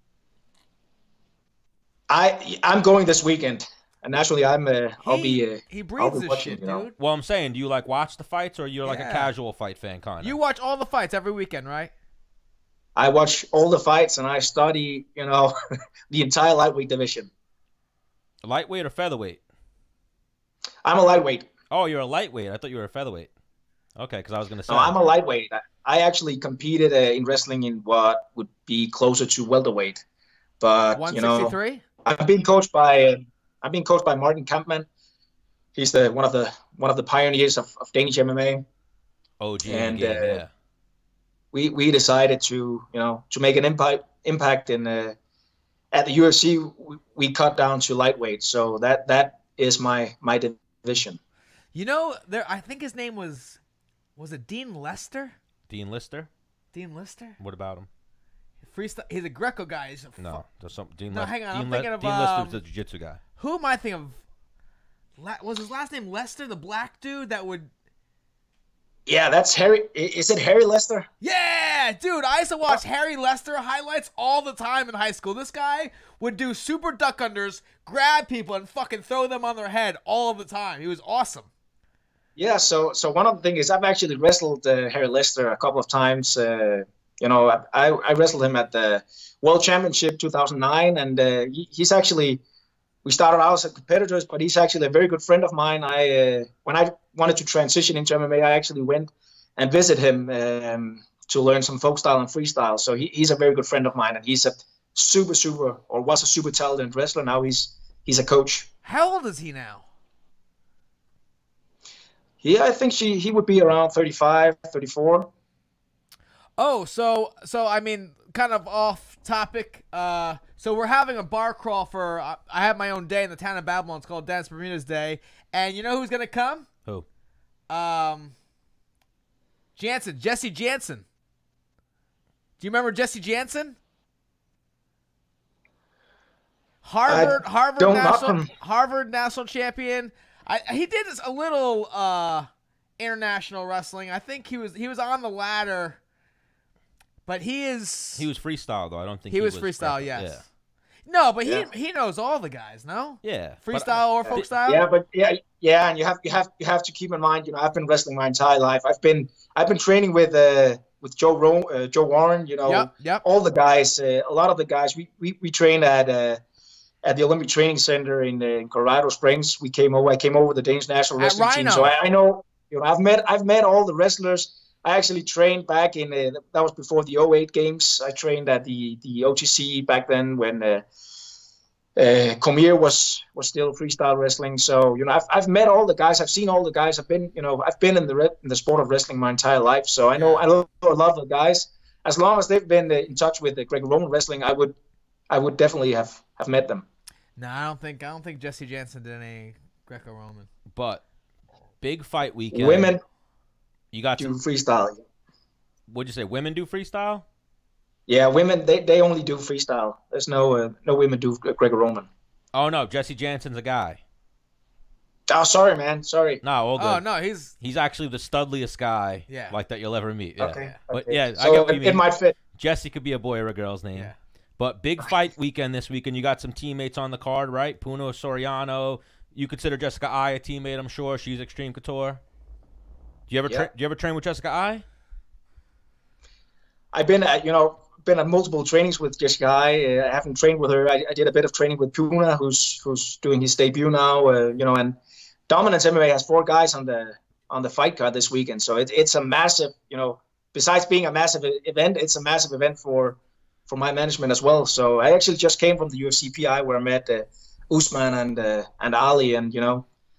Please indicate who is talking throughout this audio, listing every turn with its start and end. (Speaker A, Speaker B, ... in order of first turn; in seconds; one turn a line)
Speaker A: 2.1-6.8
Speaker B: 5.0-6.9
Speaker C: 7.0-10.4
Speaker B: 8.8-9.3
Speaker B: 10.2-11.9
Speaker A: 12.9-15.5
Speaker A: 16.1-17.3
Speaker C: 18.4-19.4
Speaker A: 20.8-21.5
Speaker C: 21.7-23.3
Speaker C: 24.0-24.9
Speaker A: 24.7-30.0
Speaker A: 30.6-34.9
Speaker B: 30.9-31.8
Speaker A: 35.8-38.6
Speaker C: 39.4-40.5
Speaker A: 39.6-40.4
Speaker A: 41.5-45.1
Speaker A: 45.9-51.2
Speaker B: 51.7-53.6
Speaker B: 54.2-55.3
Speaker C: 55.7-56.3
Speaker B: 56.7-57.4
Speaker C: 57.4-57.9
Speaker B: 58.6-60.4
Speaker C: 60.2-63.2
Speaker B: 61.1-62.6
Speaker B: 63.4-64.2
Speaker B: 65.2-67.7
Speaker A: 69.0-71.1
Speaker B: 71.2-81.5
Speaker A: 82.3-92.4
Speaker A: 93.0-108.7
Speaker B: 108.8-109.8
Speaker A: 112.4-115.3
Speaker B: 116.6-126.7
Speaker B: 127.7-128.3
Speaker B: 129.8-131.0
Speaker B: 132.6-133.8
Speaker B: 136.8-142.5
Speaker A: 137.1-138.5
Speaker B: 143.0-146.0
Speaker B: 147.3-148.3
Speaker C: 148.2-150.4
Speaker B: 149.3-150.4
Speaker B: 151.1-154.8
Speaker C: 153.2-154.5
Speaker A: 154.3-166.4
Speaker B: 162.6-163.2
Speaker A: 167.0-180.8
Speaker B: 171.2-171.9
Speaker A: 182.0-194.7
Speaker B: 190.1-190.4
Speaker A: 195.3-196.8
Speaker B: 197.4-200.5
Speaker C: 200.7-201.0
Speaker C: 201.8-202.9
Speaker A: 202.5-203.0
Speaker C: 203.9-204.4
Speaker A: 204.2-205.0
Speaker C: 205.9-207.2
Speaker A: 208.1-212.1
Speaker C: 212.5-214.0
Speaker A: 215.3-216.4
Speaker C: 216.4-217.0
Speaker B: 216.8-217.5
Speaker C: 217.6-232.2
Speaker B: 219.3-219.6
Speaker A: 220.4-222.3
Speaker C: 233.3-234.8
Speaker A: 236.9-245.0
Speaker A: 245.5-259.8